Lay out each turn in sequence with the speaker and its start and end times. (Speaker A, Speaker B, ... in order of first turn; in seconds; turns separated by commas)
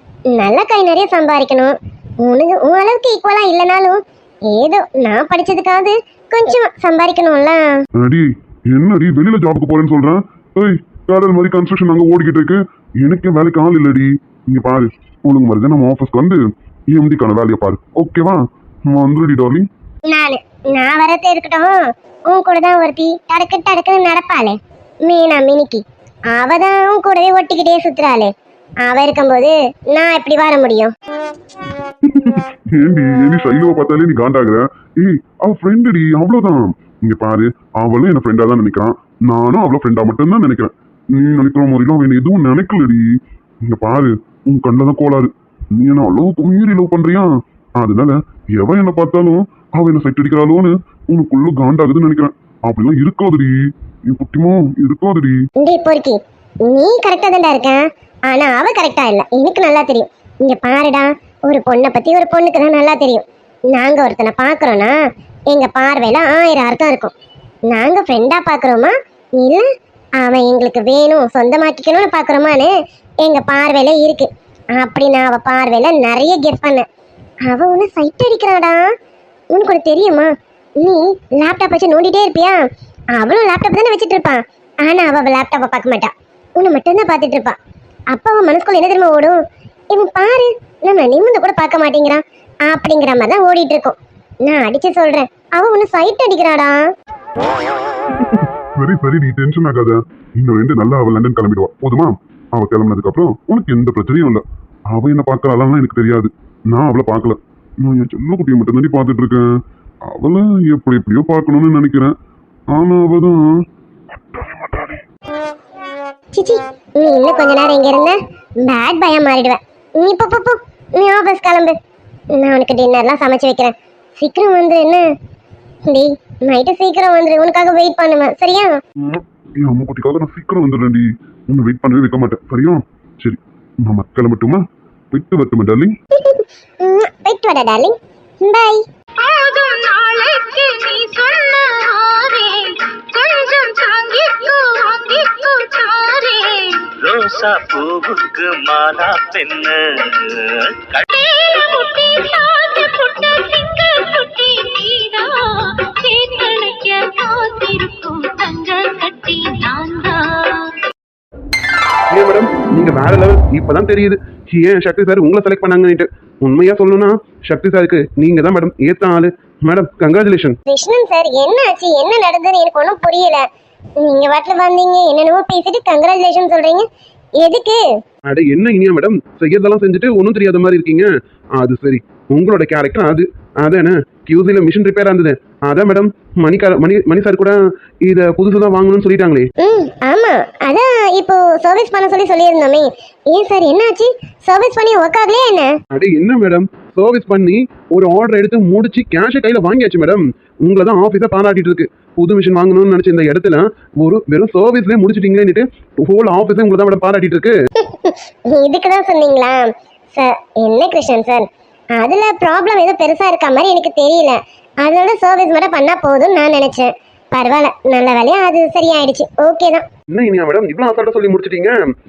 Speaker A: 0.3-7.8, Speaker B: 8.0-19.7, Speaker A: 20.1-28.3, Speaker A: 28.8-30.9, Speaker B: 32.0-53.5, Speaker B: 54.1-55.4, Speaker A: 55.6-65.0, Speaker A: 65.5-67.1, Speaker A: 67.7-69.7, Speaker A: 70.2-76.9, Speaker A: 77.5-78.8, Speaker A: 79.5-82.6, Speaker A: 83.1-87.6, Speaker A: 88.1-89.4, Speaker A: 89.9-96.9, Speaker B: 98.1-109.5, Speaker B: 110.1-112.1, Speaker B: 112.7-113.5, Speaker B: 114.1-115.0, Speaker A: 116.3-121.8, Speaker A: 122.3-125.1, Speaker A: 125.9-128.8, Speaker B: 129.0-135.9, Speaker A: 136.2-138.8, Speaker C: 139.2-146.9, Speaker D: 147.0-151.0, Speaker C: 151.1-160.8, Speaker E: 162.1-170.6, Speaker A: 170.7-173.5, Speaker A: 174.0-176.9, Speaker A: 177.4-177.8, Speaker E: 178.3-189.5, Speaker A: 189.6-195.8, Speaker E: 195.9-207.6, Speaker A: 207.8-219.9, Speaker E: 220.1-221.8